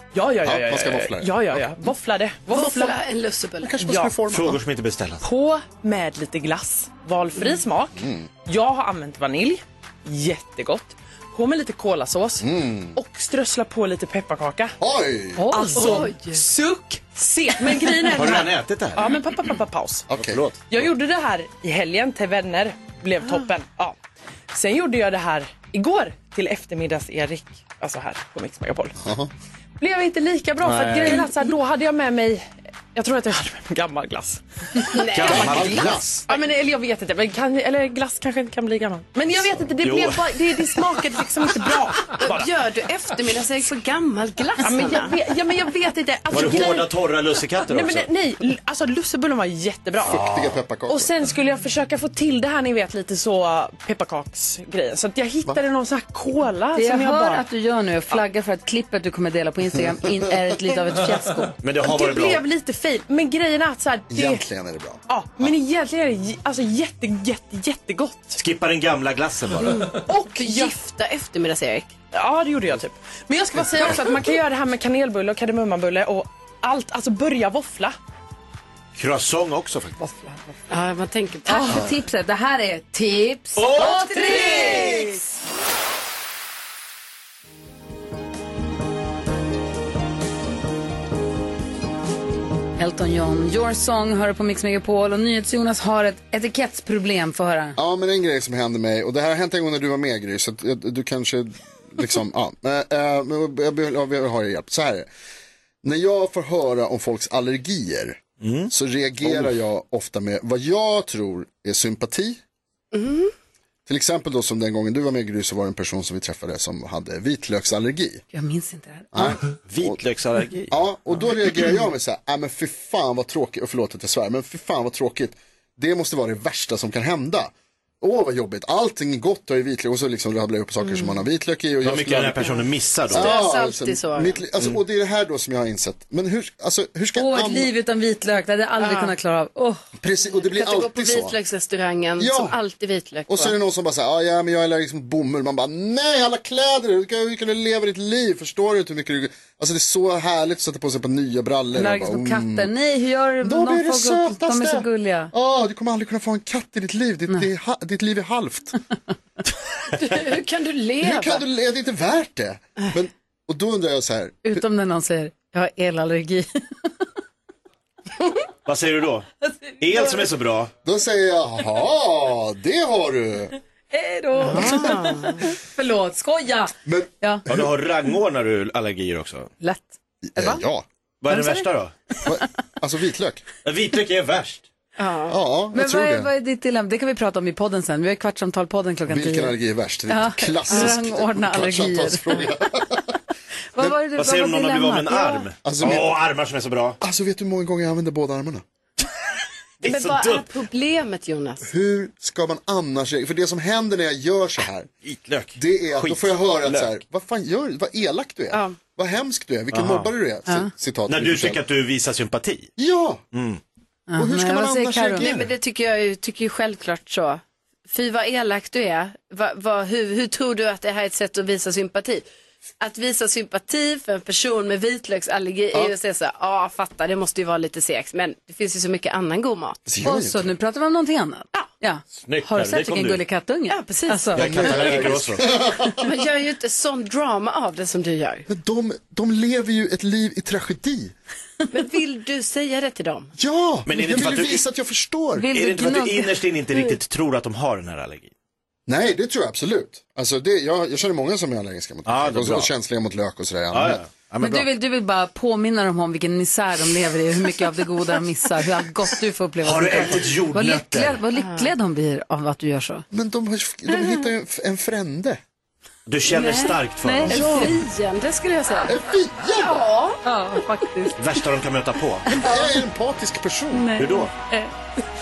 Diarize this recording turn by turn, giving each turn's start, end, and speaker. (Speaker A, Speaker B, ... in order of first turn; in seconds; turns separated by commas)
Speaker A: 0.1-3.0, Speaker B: 0.4-1.6, Speaker C: 2.5-4.0, Speaker B: 3.6-4.6, Speaker A: 3.9-4.2, Speaker D: 4.2-5.2, Speaker A: 5.2-14.8, Speaker B: 8.0-8.3, Speaker B: 12.4-13.0, Speaker B: 14.8-15.5, Speaker E: 15.3-16.1, Speaker A: 15.5-20.1, Speaker C: 15.7-16.5, Speaker D: 18.1-19.1, Speaker B: 20.1-20.4, Speaker D: 20.1-20.9, Speaker A: 20.7-24.0, Speaker A: 24.5-29.0, Speaker B: 29.0-29.3, Speaker A: 29.8-42.5, Speaker D: 30.6-31.3, Speaker C: 34.9-35.6, Speaker D: 35.1-36.3, Speaker B: 35.3-36.2, Speaker D: 39.8-41.0, Speaker C: 42.1-45.2, Speaker A: 44.6-47.0, Speaker D: 46.3-48.1, Speaker A: 47.6-57.5, Speaker D: 50.0-50.5, Speaker B: 50.1-51.1, Speaker E: 56.7-61.5, Speaker D: 61.6-62.5, Speaker A: 61.8-64.5, Speaker B: 64.1-65.0, Speaker A: 65.1-68.4, Speaker D: 68.3-70.0, Speaker C: 69.6-71.9, Speaker A: 69.9-70.8, Speaker A: 72.1-78.0, Speaker D: 79.0-80.0, Speaker E: 80.0-80.4, Speaker C: 80.7-81.8, Speaker E: 81.5-85.2, Speaker D: 83.6-85.2, Speaker E: 92.8-97.8, Speaker B: 97.8-105.1, Speaker B: 105.8-112.4, Speaker D: 108.4-108.7, Speaker C: 112.9-113.3, Speaker B: 113.9-118.2, Speaker E: 118.3-119.4, Speaker B: 119.1-120.0, Speaker D: 119.2-120.7, Speaker B: 120.7-137.7, Speaker C: 130.8-131.2, Speaker D: 131.8-133.4, Speaker C: 133.1-134.4, Speaker E: 137.2-139.8, Speaker C: 138.8-139.1, Speaker B: 140.0-141.3, Speaker C: 140.3-143.6, Speaker B: 142.2-142.6, Speaker B: 143.3-152.7, Speaker E: 151.7-155.3, Speaker B: 153.4-158.8, Speaker C: 159.9-161.4, Speaker B: 161.0-164.6, Speaker E: 164.4-166.9, Speaker D: 168.7-169.3, Speaker E: 169.4-170.3, Speaker D: 169.8-170.7, Speaker B: 170.8-173.6, Speaker E: 173.9-177.4, Speaker C: 174.4-175.5, Speaker B: 174.6-174.8, Speaker B: 176.8-177.7, Speaker D: 177.5-179.5, Speaker E: 179.6-180.6, Speaker B: 180.3-180.8, Speaker D: 181.2-181.9, Speaker E: 181.3-181.7, Speaker B: 182.3-183.5, Speaker D: 183.6-184.7, Speaker C: 185.0-185.4, Speaker B: 185.3-186.3, Speaker E: 185.7-189.6, Speaker B: 189.1-193.1, Speaker E: 190.1-192.5, Speaker E: 193.7-195.4, Speaker D: 194.2-197.0, Speaker B: 195.6-196.2, Speaker B: 197.0-198.6, Speaker D: 199.8-200.5, Speaker C: 199.8-201.7, Speaker B: 201.7-204.9, Speaker D: 205.0-206.9, Speaker B: 205.6-211.6, Speaker C: 208.5-208.8, Speaker D: 209.7-210.1, Speaker D: 211.1-212.7, Speaker B: 212.8-213.2, Speaker D: 213.3-213.6, Speaker E: 214.1-215.3, Speaker B: 214.2-215.5, Speaker C: 215.2-222.2, Speaker C: 222.8-229.8, Speaker B: 229.9-230.5, Speaker E: 230.0-234.4, Speaker D: 232.2-233.2, Speaker C: 233.7-235.1, Speaker D: 234.3-235.5, Speaker B: 234.4-236.0, Speaker C: 236.0-238.5, Speaker B: 238.5-241.1, Speaker C: 241.7-243.3, Speaker B: 243.4-245.5, Speaker D: 243.9-244.6, Speaker E: 245.4-246.3, Speaker D: 245.5-248.3, Speaker B: 248.9-254.0, Speaker D: 252.1-252.7, Speaker D: 253.7-254.7, Speaker E: 254.4-263.1, Speaker D: 259.6-261.2, Speaker C: 261.4-261.7, Speaker B: 263.1-265.4, Speaker C: 263.9-264.2, Speaker D: 266.1-267.7, Speaker C: 266.3-269.0, Speaker E: 267.0-267.7, Speaker B: 268.9-269.9, Speaker C: 269.5-270.2, Speaker E: 270.2-271.2, Speaker D: 271.2-272.4, Speaker B: 272.4-274.0, Speaker E: 273.7-274.7, Speaker D: 274.0-274.3